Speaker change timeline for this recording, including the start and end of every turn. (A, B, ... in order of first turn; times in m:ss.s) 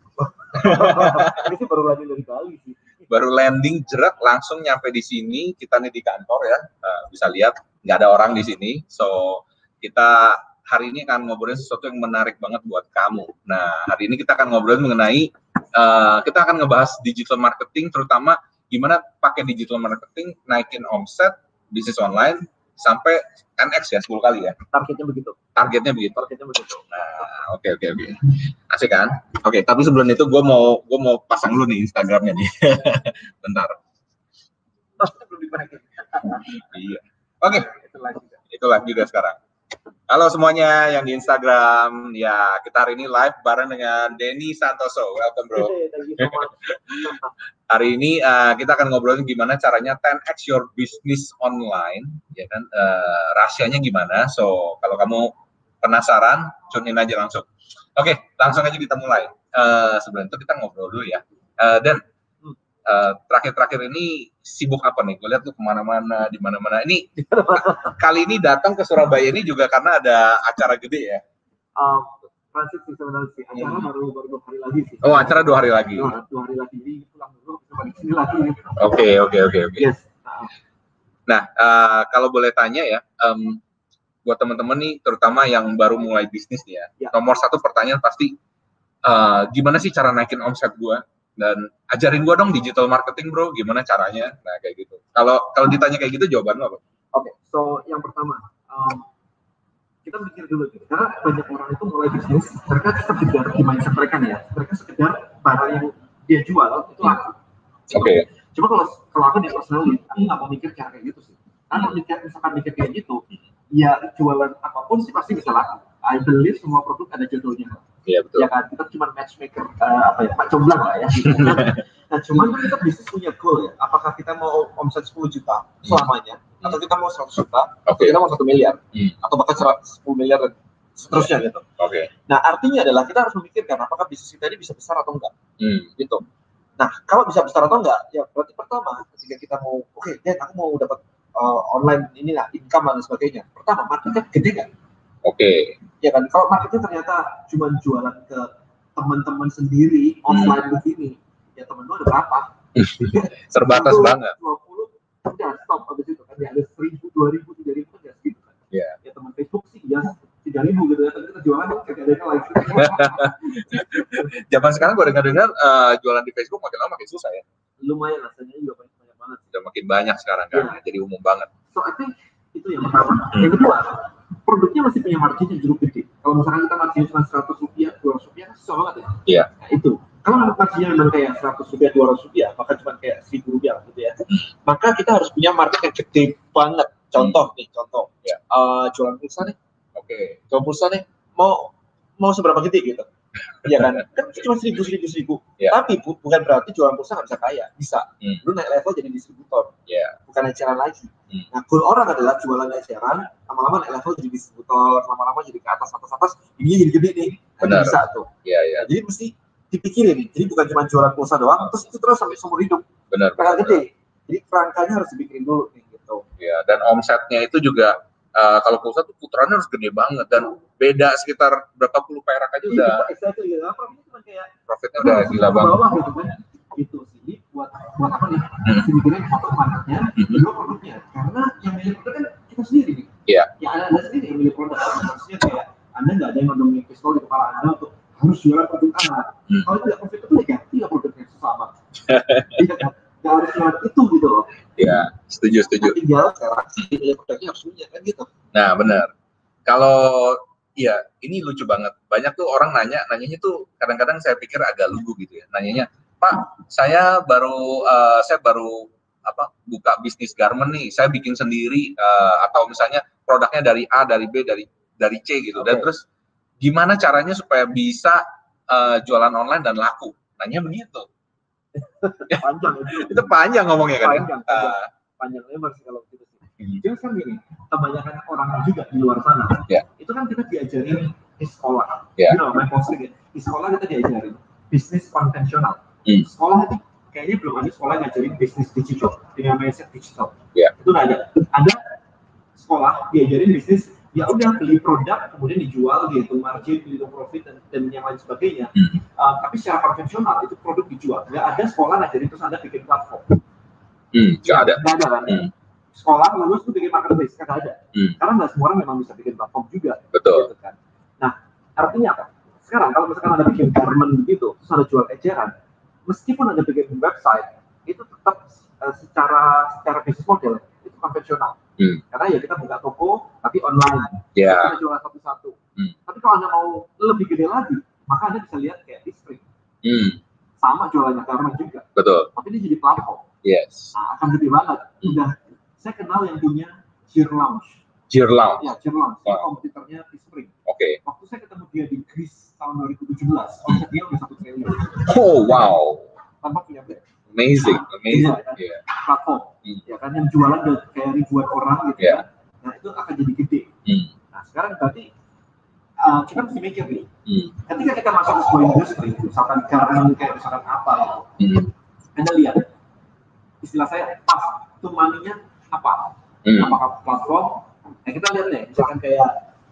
0:00.2-0:03.0 A
0:00.6-0:01.5 B
0:03.1-0:24.6 B
0:24.7-0:25.4 A
0:25.6-0:26.3 B
0:26.2-0:26.8 A
0:26.9-0:33.8 B
0:35.0-0:36.6 A
0:36.6-0:37.7 B
0:37.5-0:38.4 A
0:38.5-0:39.4 B
0:40.1-0:47.1 B
0:45.6-0:47.3 A
0:47.7-1:02.0 B
1:02.9-1:11.2 B
1:07.2-1:08.0 A
1:11.8-1:18.9 A
1:15.0-1:16.1 B
1:18.8-1:19.9 B
1:19.8-1:20.5 A
1:21.3-1:23.6 B
1:24.2-1:28.4 B
1:29.0-1:36.8 B
1:37.1-1:39.0 A
1:40.0-1:47.4 A
1:47.9-1:57.8 A
1:47.9-1:48.3 B
1:58.1-1:58.5 B
1:58.4-2:11.6 A
2:01.2-2:01.8 B
2:07.9-2:08.2 B
2:11.1-2:12.1 B
2:12.3-2:15.4 A
2:15.6-2:15.9 B
2:16.0-2:16.2 A
2:16.8-2:24.7 A
2:25.2-2:25.8 B
2:26.0-2:43.4 A
2:30.3-2:30.6 B
2:32.8-2:34.4 B
2:38.7-2:39.0 B
2:42.8-2:47.4 B
2:47.8-2:49.4 A
2:49.5-2:51.5 B
2:51.7-3:09.6 A
3:10.0-3:10.4 B
3:10.5-3:13.1 A
3:13.6-3:19.7 A
3:13.7-3:14.0 B
3:19.9-3:20.2 B
3:20.3-3:36.2 A
3:27.6-3:28.9 B
3:33.1-3:33.8 B
3:36.4-3:43.1 B
3:42.7-4:01.7 A
3:44.7-3:45.8 B
3:50.2-3:50.4 B
3:53.3-3:53.5 B
4:02.1-4:02.6 B
4:02.5-4:04.5 A
4:04.8-4:06.0 B
4:05.8-4:08.3 A
4:08.5-4:09.1 B
4:09.7-4:26.0 B
4:25.6-4:25.9 A
4:26.6-4:31.1 B
4:32.0-4:33.4 A
4:32.3-4:34.9 B
4:33.9-4:51.8 A
4:52.6-5:03.4 A
5:04.1-5:05.5 B
5:04.4-5:15.5 A
5:10.1-5:10.5 B
5:16.1-5:21.6 A
5:21.8-5:22.0 B
5:22.1-5:25.6 A
5:24.4-5:24.8 B
5:26.1-5:29.5 A
5:29.8-5:30.2 B
5:30.6-5:33.2 A
5:32.0-5:32.3 B
5:33.4-5:33.9 B
5:33.9-5:37.8 A
5:38.1-5:38.7 B
5:38.6-5:40.5 A
5:40.7-5:41.0 B
5:41.0-5:45.5 A
5:45.0-5:46.1 B
5:46.4-5:47.0 A
5:47.3-5:48.8 B
5:48.1-5:53.7 A
5:53.9-5:54.1 B
5:54.3-5:55.1 A
5:56.0-5:57.1 A
5:57.3-5:57.5 B
5:57.7-6:01.3 A
6:01.4-6:01.7 B
6:02.2-6:02.7 A
6:03.6-6:09.3 A
6:06.4-6:06.8 B